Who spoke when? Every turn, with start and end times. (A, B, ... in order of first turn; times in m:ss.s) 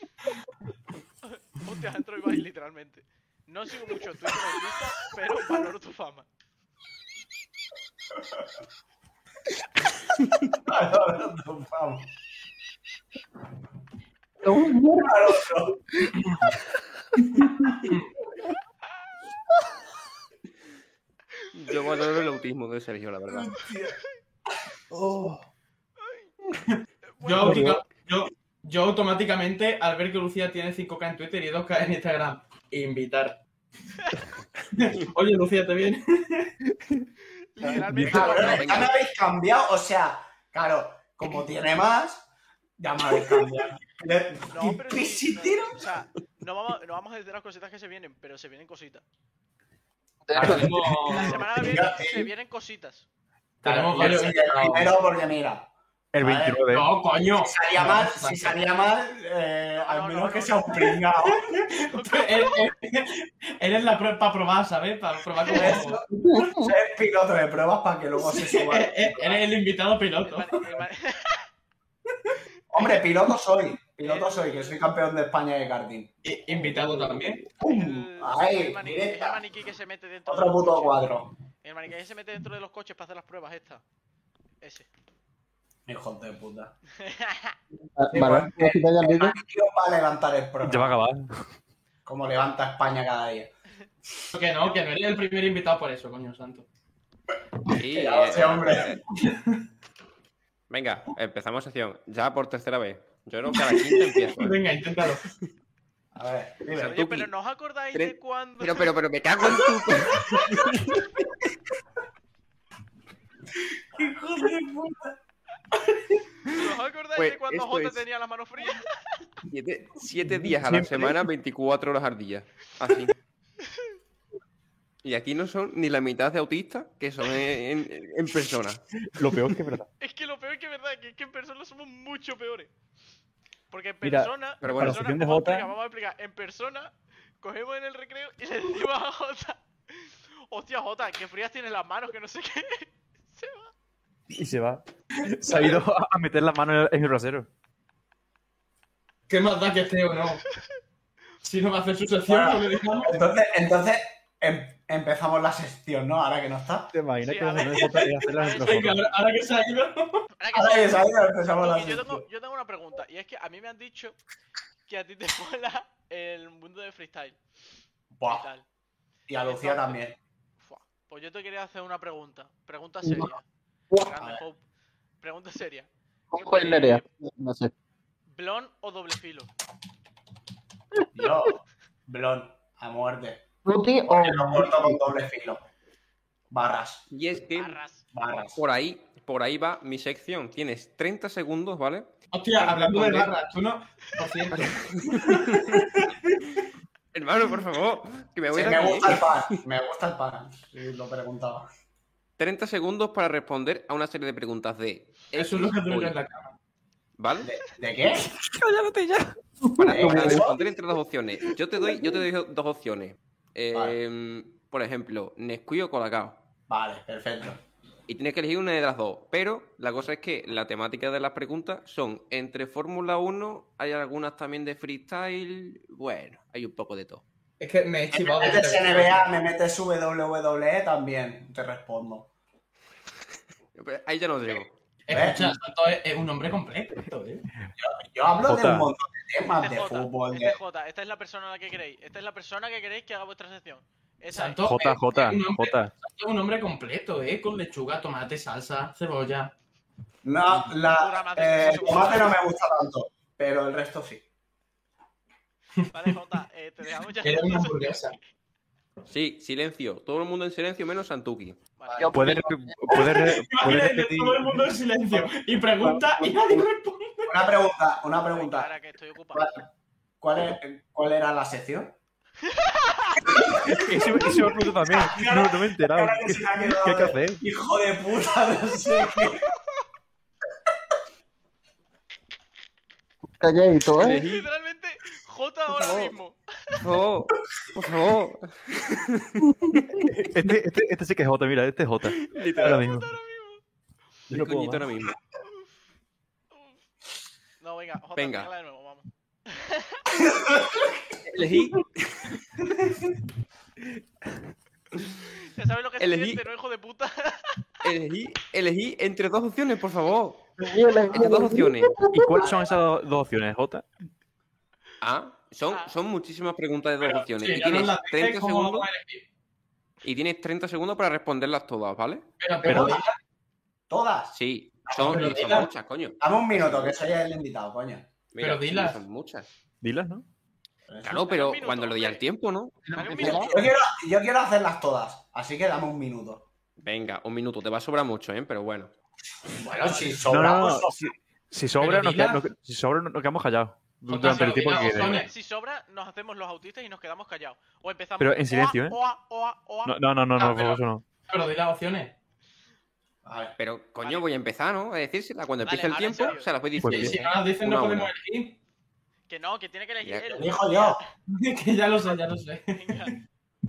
0:01.3-0:06.2 A
0:10.5-0:12.1 B
0:14.4-0:15.2 C
0:14.9-0:15.8 B
0:21.5-0:23.7 D
0:24.9-0:25.4 E
0:26.0-0:26.3 A
0:26.7-0:33.4 F
0:27.1-0:27.7 A
0:27.4-0:27.8 E
0:34.8-0:36.5 F
0:37.5-0:38.9 A
0:37.6-0:38.4 E
0:38.1-0:42.3 B
0:38.2-0:38.9 D
0:42.8-0:45.8 B
0:44.5-0:49.0 A
0:50.3-0:50.7 C
0:50.4-0:51.4 F
0:50.4-0:51.4 E
0:51.1-0:53.0 A
0:51.6-0:52.3 B
0:53.6-0:54.9 F
0:53.6-0:56.6 B
0:56.1-0:56.9 E
0:56.7-0:58.6 F
0:57.4-1:01.5 B
0:59.8-1:00.8 A
1:01.3-1:03.1 F
1:01.8-1:02.6 A
1:03.6-1:06.0 F
1:05.5-1:09.4 B
1:06.2-1:06.7 C
1:08.2-1:10.5 F
1:10.3-1:11.5 A
1:12.7-1:16.1 B
1:14.0-1:14.8 A
1:16.2-1:17.4 F
1:17.6-1:19.4 B
1:17.6-1:21.1 A
1:20.3-1:21.3 B
1:21.6-1:23.8 A
1:24.6-1:24.9 A
1:25.9-1:26.7 B
1:27.0-1:27.6 A
1:27.7-1:29.4 C
1:28.1-1:31.0 B
1:30.6-1:31.3 E
1:32.0-1:33.5 B
1:34.3-1:36.7 F
1:34.6-1:34.9 A
1:37.7-1:39.0 D
1:37.9-1:39.0 B
1:39.2-1:39.6 F
1:40.7-1:44.6 D
1:43.5-1:45.2 F
1:46.1-1:46.9 B
1:46.7-1:47.3 D
1:46.8-1:48.9 A
1:47.9-1:50.9 D
1:53.9-1:55.2 B
1:56.4-1:58.9 A
1:57.2-1:58.0 D
1:59.5-2:03.1 D
2:00.3-2:01.2 E
2:05.0-2:08.8 D
2:09.1-2:09.9 E
2:10.0-2:12.7 A
2:13.7-2:23.7 A
2:14.0-2:15.7 E
2:14.6-2:15.0 D
2:24.3-2:27.5 E
2:29.3-2:30.4 F
2:31.4-2:33.2 F
2:32.3-2:36.9 B
2:36.9-2:39.1 E
2:37.2-2:39.0 A
2:37.7-2:38.1 F
2:38.6-2:40.2 F
2:40.4-2:44.2 A
2:40.5-2:42.2 B
2:44.9-2:47.4 A
2:48.2-2:48.4 B
2:48.2-2:48.6 A
2:49.3-2:50.2 B
2:49.4-2:50.0 A
2:50.6-2:53.4 A
2:53.0-2:53.3 C
2:54.0-2:54.6 A
2:55.2-2:55.9 A
2:56.3-2:57.7 C
2:56.5-2:57.0 A
2:58.3-2:59.5 A
3:01.1-3:03.4 B
3:03.6-3:05.0 C
3:04.0-3:05.6 B
3:06.5-3:07.0 B
3:07.1-3:07.8 D
3:07.5-3:08.0 A
3:08.1-3:08.6 B
3:08.5-3:12.1 D
3:12.3-3:16.1 F
3:12.6-3:13.3 B
3:14.8-3:15.8 D
3:17.1-3:19.6 D
3:18.5-3:21.7 B
3:22.4-3:26.2 D
3:25.3-3:26.6 F
3:27.2-3:27.5 D
3:27.4-3:28.3 B
3:28.6-3:29.1 E
3:29.8-3:36.4 D
3:29.8-3:30.5 B
3:30.0-3:30.4 C
3:36.7-3:37.6 B
3:38.1-3:47.2 D
3:47.6-3:49.3 F
3:48.1-3:52.3 B
3:53.7-3:54.8 D
3:55.1-3:57.4 F
3:55.1-3:55.6 B
3:57.8-4:00.6 B
3:58.4-3:58.9 E
3:59.5-4:04.6 A
4:04.3-4:09.5 F
4:04.6-4:05.9 E
4:10.2-4:14.2 B
4:10.9-4:12.4 A
4:15.9-4:18.2 A
4:17.2-4:18.2 F
4:19.1-4:21.6 D
4:21.8-4:22.4 A
4:22.0-4:23.1 C
4:22.1-4:24.6 E
4:22.9-4:27.4 F
4:25.8-4:26.6 C
4:27.3-4:28.7 B
4:28.3-4:29.6 A
4:29.3-4:29.7 B
4:30.2-4:32.0 B
4:32.5-4:33.3 A
4:33.3-4:33.9 B
4:33.6-4:37.4 E
4:34.8-4:39.4 B
4:43.4-4:44.2 C
4:44.0-4:44.5 D
4:44.0-4:46.8 A
4:45.8-4:46.1 D
4:46.8-4:50.0 D
4:50.2-4:53.1 E
4:52.0-4:52.8 D
4:52.6-4:53.6 A
4:54.3-4:54.9 E
4:54.3-4:55.1 D
4:57.6-5:00.2 A
4:58.2-4:58.5 D
5:00.2-5:01.0 B
5:01.3-5:02.2 D
5:05.5-5:07.6 A
5:06.0-5:06.4 D
5:07.8-5:10.4 D
5:10.6-5:12.4 C
5:11.1-5:12.0 D
5:12.1-5:13.9 E
5:12.4-5:12.7 B
5:15.0-5:18.9 D
5:17.0-5:19.2 F
5:20.0-5:22.2 D
5:22.4-5:23.2 F
5:22.6-5:23.0 B
5:23.9-5:24.3 B
5:24.3-5:27.0 D
5:24.8-5:25.6 B
5:25.0-5:25.7 F
5:26.2-5:28.1 B
5:28.3-5:29.5 D
5:28.4-5:29.0 F
5:29.8-5:30.2 E
5:30.9-5:31.3 B
5:31.0-5:32.8 D
5:31.2-5:32.2 A
5:32.9-5:33.6 C
5:32.9-5:33.7 A
5:33.2-5:36.4 B
5:36.8-5:38.9 D
5:39.6-5:41.1 B
5:40.3-5:45.3 E
5:41.8-5:42.4 F
5:44.1-5:45.3 F
5:44.2-5:50.0 A
5:48.2-5:49.0 E
5:49.8-5:51.0 E
5:50.4-5:52.1 F
5:53.2-5:53.5 B
5:53.6-5:58.1 D
5:54.0-5:54.2 A
5:55.6-5:56.5 A
5:56.8-5:57.2 E
5:56.8-5:58.6 F
5:59.3-6:01.0 A
6:00.0-6:00.4 D
6:00.3-6:01.0 B
6:01.3-6:03.1 F
6:02.7-6:03.2 A